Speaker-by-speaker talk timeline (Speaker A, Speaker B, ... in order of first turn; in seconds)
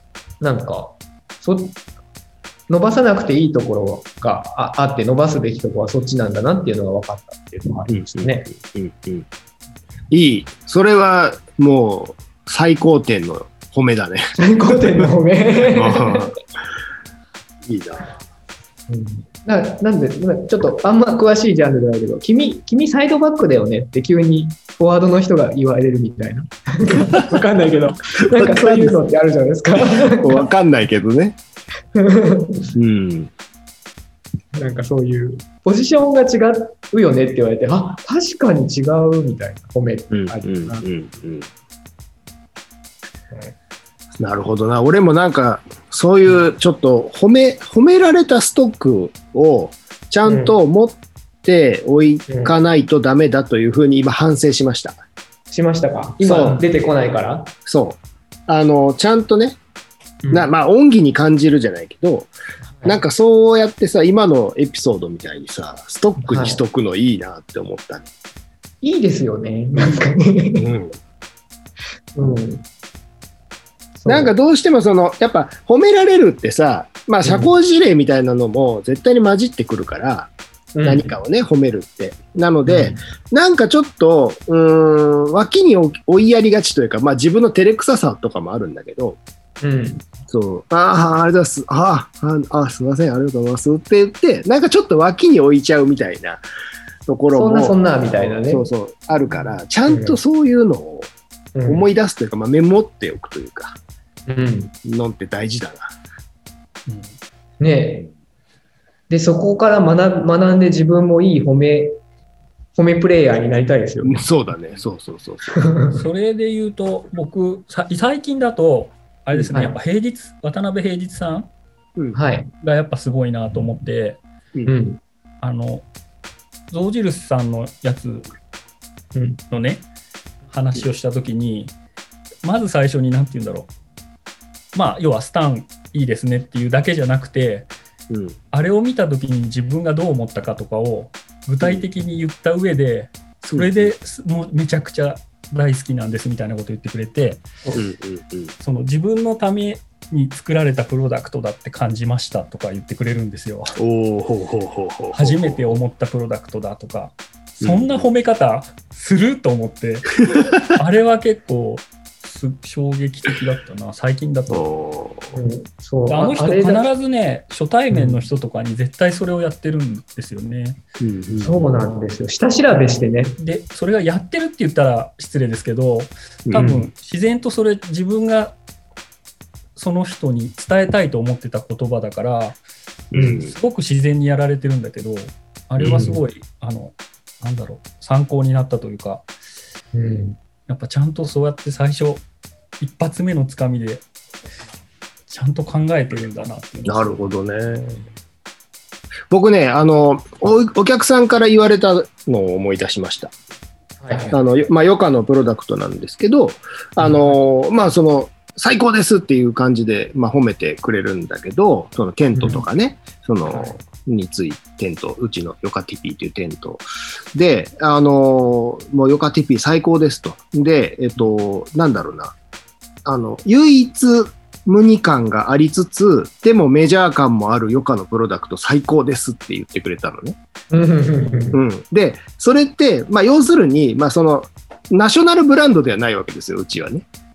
Speaker A: 0.4-1.8, 2.7-8.5, 14.4-16.3, 18.9-30.5, 31.9-32.7, 34.5-40.9, 50.2-50.6, 52.3-52.5, 55.5-57.5, 60.2-60.5, 62.7-63.0, 66.2-66.6, 68.8-70.7, 72.2-72.7, 74.0-74.3, 77.2-77.5, 80.8-81.2, 82.7-83.0, 89.6-90.1, 97.3-98.7, 99.9-100.2, 101.5-101.9, 104.3-104.7, 107.6-108.1, 109.1-112.0, 112.8-114.2, 115.5-116.0, 122.1-122.5, 124.7-125.0, 129.2-129.4, 165.3-166.9, 167.9-168.2, 171.4-173.4, 185.8-186.2, 189.9-190.4, 204.0-204.4, 207.0-207.4, 212.3-212.6, 213.5-213.8, 230.7-231.6
Speaker B: 7.9-9.3, 10.1-15.1, 15.6-16.4, 17.6-18.2, 28.3-29.0, 30.0-31.4, 32.8-33.3, 40.1-41.5, 44.2-55.0, 56.2-56.6, 57.7-59.6, 60.3-62.3, 62.9-68.1, 70.6-71.0, 74.1-80.3, 80.8-89.2, 90.3-96.4, 97.1-101.1, 101.7-103.8, 104.8-106.0, 114.0-115.6, 138.1-138.4, 141.6-141.9, 143.5-143.9, 147.8-148.5, 153.8-155.8, 157.6-158.1, 164.5-165.4, 171.0-171.7, 176.5-176.9, 183.1-183.6, 196.8-198.0, 199.3-203.3, 204.3-222.3, 223.1-230.4, 231.5-237.1
Speaker C: 106.9-107.1, 115.9-121.5, 122.6-124.2, 125.4-125.9, 126.7-128.3, 129.5-129.9, 130.5-131.7, 132.4-133.7, 134.7-137.7, 138.5-147.7, 148.6-153.8, 155.1-164.7, 166.1-170.8, 173.4-178.6, 179.8-182.6, 183.2-189.3, 190.7-192.2, 192.8-194.1, 195.3-197.2